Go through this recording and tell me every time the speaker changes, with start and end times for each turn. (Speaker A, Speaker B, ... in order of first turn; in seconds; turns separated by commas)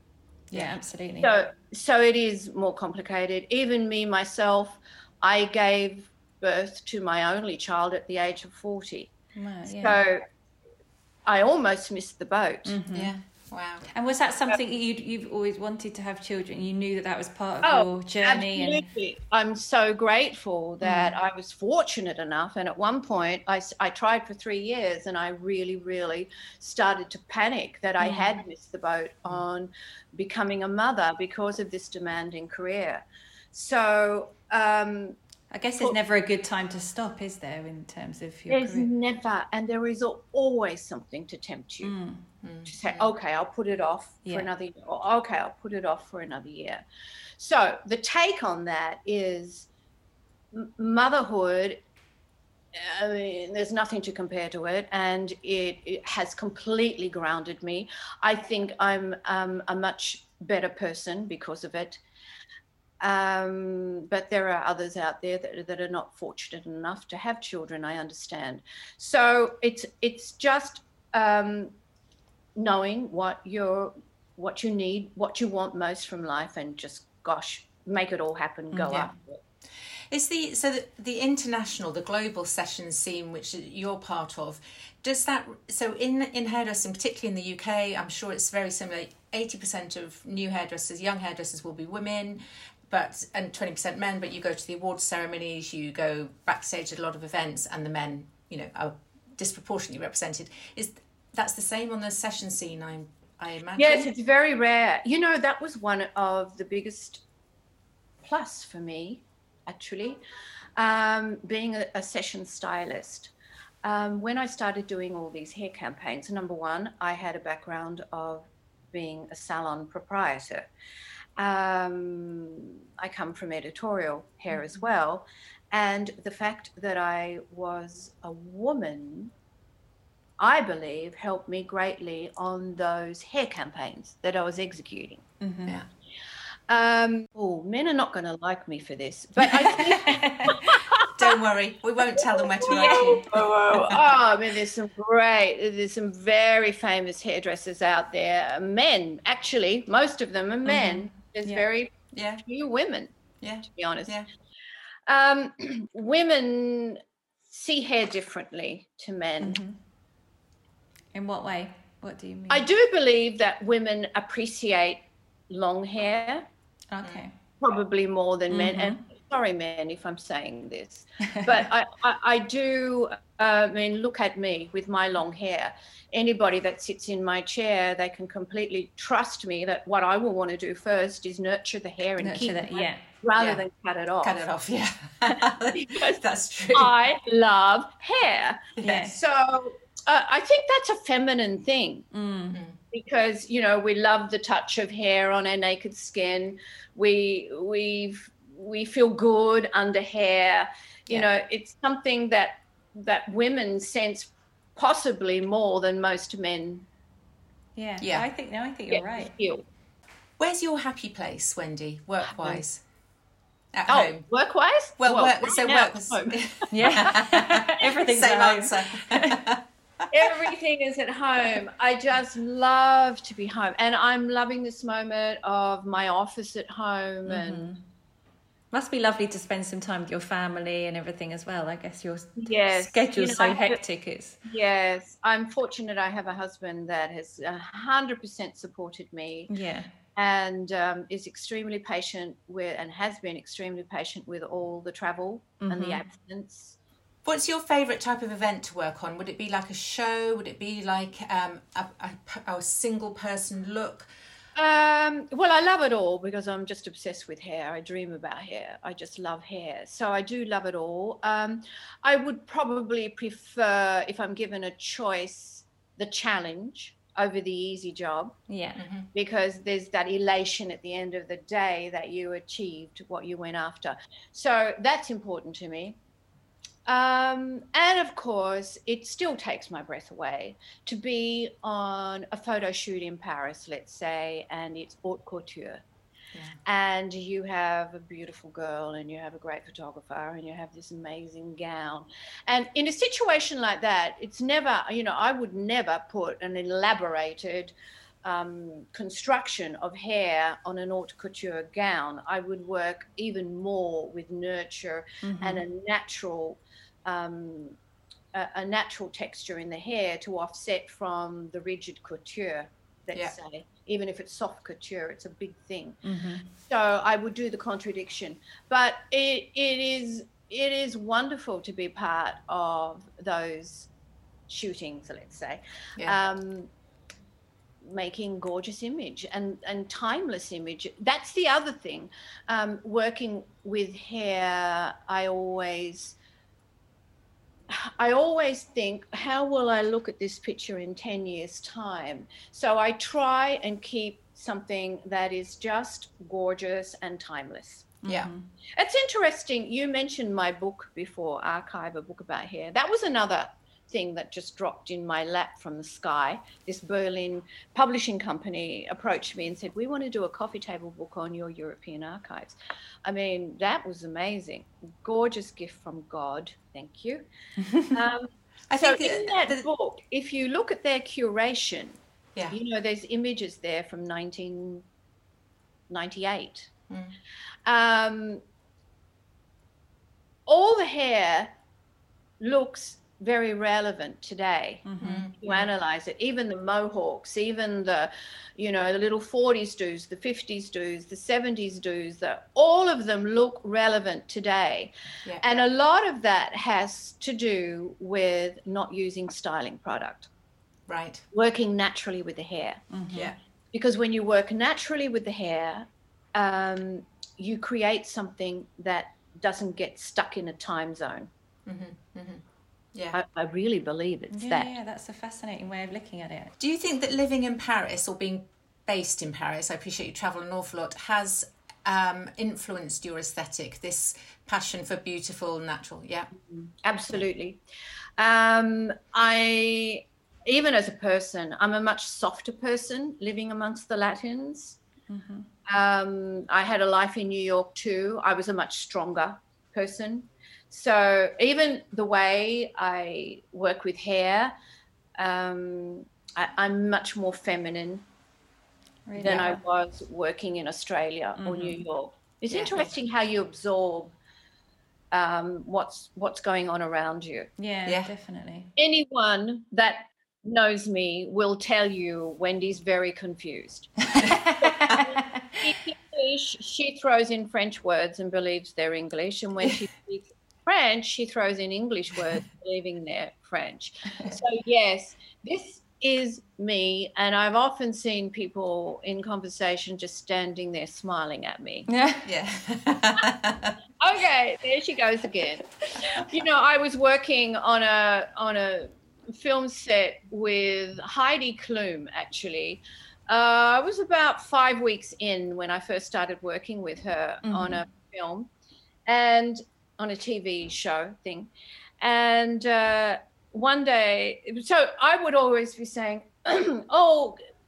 Speaker A: 0.5-1.3, Speaker B: 1.2-9.1, Speaker A: 9.3-10.0, Speaker B: 9.7-10.2, Speaker B: 11.3-12.8, Speaker A: 12.7-13.2, Speaker C: 12.9-13.8, Speaker A: 13.9-18.8, Speaker B: 17.6-35.2, Speaker A: 20.8-21.1, Speaker A: 28.0-28.4, Speaker A: 35.5-38.9, Speaker B: 38.5-42.0, Speaker A: 41.8-42.3, Speaker C: 42.4-43.1, Speaker B: 42.7-46.8, Speaker B: 47.4-49.7, Speaker B: 50.5-51.8, Speaker B: 52.7-62.0, Speaker B: 63.0-71.7, Speaker B: 72.6-79.4, Speaker C: 80.1-104.1, Speaker B: 103.8-107.2, Speaker B: 108.2-110.2, Speaker B: 110.8-113.3, Speaker B: 113.8-120.7, Speaker B: 121.4-129.3, Speaker B: 130.4-135.2, Speaker A: 135.4-135.8, Speaker B: 136.7-141.4, Speaker A: 139.5-140.8, Speaker C: 141.2-144.0, Speaker B: 142.2-151.9, Speaker A: 142.7-144.0, Speaker A: 150.7-151.6, Speaker C: 152.1-152.4, Speaker B: 152.5-153.1, Speaker C: 153.4-154.3, Speaker B: 153.7-154.1, Speaker B: 155.1-159.6, Speaker A: 159.4-159.8, Speaker A: 161.1-162.7, Speaker B: 162.5-166.5, Speaker A: 166.9-167.3, Speaker B: 167.6-184.4, Speaker A: 168.5-169.0, Speaker A: 171.3-171.6, Speaker A: 182.2-183.0, Speaker C: 183.4-183.6, Speaker C: 184.2-186.9, Speaker B: 185.8-186.2, Speaker B: 186.7-192.1, Speaker A: 188.8-189.2, Speaker A: 192.1-192.6, Speaker B: 192.9-206.9, Speaker A: 207.8-209.3, Speaker C: 208.0-208.3, Speaker B: 208.9-209.7, Speaker C: 210.4-212.8, Speaker C: 213.7-214.2, Speaker B: 213.9-217.1, Speaker C: 215.0-220.3, Speaker A: 216.7-219.4, Speaker B: 220.1-227.7, Speaker A: 227.3-227.8, Speaker A: 228.7-234.4, Speaker B: 232.4-233.8, Speaker B: 234.4-239.5, Speaker A: 239.5-239.9, Speaker B: 240.2-246.8, Speaker A: 245.6-246.0, Speaker C: 247.2-254.1, Speaker B: 254.6-268.4, Speaker A: 268.5-268.8, Speaker C: 268.8-269.1, Speaker B: 269.1-276.0, Speaker B: 276.9-285.8, Speaker B: 286.6-297.7, Speaker B: 298.2-307.8, Speaker A: 305.2-305.6, Speaker B: 308.3-316.0, Speaker A: 316.0-316.5, Speaker B: 316.6-323.9, Speaker B: 324.5-326.7, Speaker B: 327.8-336.2, Speaker B: 337.7-348.0, Speaker A: 348.0-348.5, Speaker B: 348.8-367.3, Speaker A: 367.6-367.9, Speaker B: 367.8-372.0, Speaker C: 368.7-369.6, Speaker B: 372.5-374.9, Speaker B: 375.9-376.7, Speaker B: 377.7-378.4, Speaker B: 380.5-381.5, Speaker B: 382.4-394.9, Speaker A: 384.9-385.3, Speaker C: 385.0-385.6, Speaker B: 395.4-400.3, Speaker C: 400.9-401.2, Speaker B: 401.3-402.8, Speaker A: 402.9-403.3, Speaker B: 403.7-411.3, Speaker C: 411.7-412.4, Speaker B: 413.1-414.7, Speaker A: 414.3-416.5, Speaker C: 416.6-426.3, Speaker B: 426.5-427.6, Speaker B: 428.2-434.8, Speaker A: 435.1-435.5, Speaker B: 435.7-444.5, Speaker B: 445.2-448.0, Speaker A: 449.1-449.6, Speaker C: 449.2-449.5, Speaker B: 449.2-454.1, Speaker A: 451.4-451.8, Speaker A: 452.5-452.8, Speaker B: 455.1-457.5, Speaker A: 457.6-458.7, Speaker C: 457.9-458.1, Speaker B: 458.8-464.1, Speaker A: 464.1-465.6, Speaker B: 465.0-481.9, Speaker A: 481.9-482.2, Speaker C: 482.2-483.8, Speaker B: 484.0-498.5, Speaker A: 497.4-497.8, Speaker B: 499.1-501.5, Speaker B: 502.0-507.4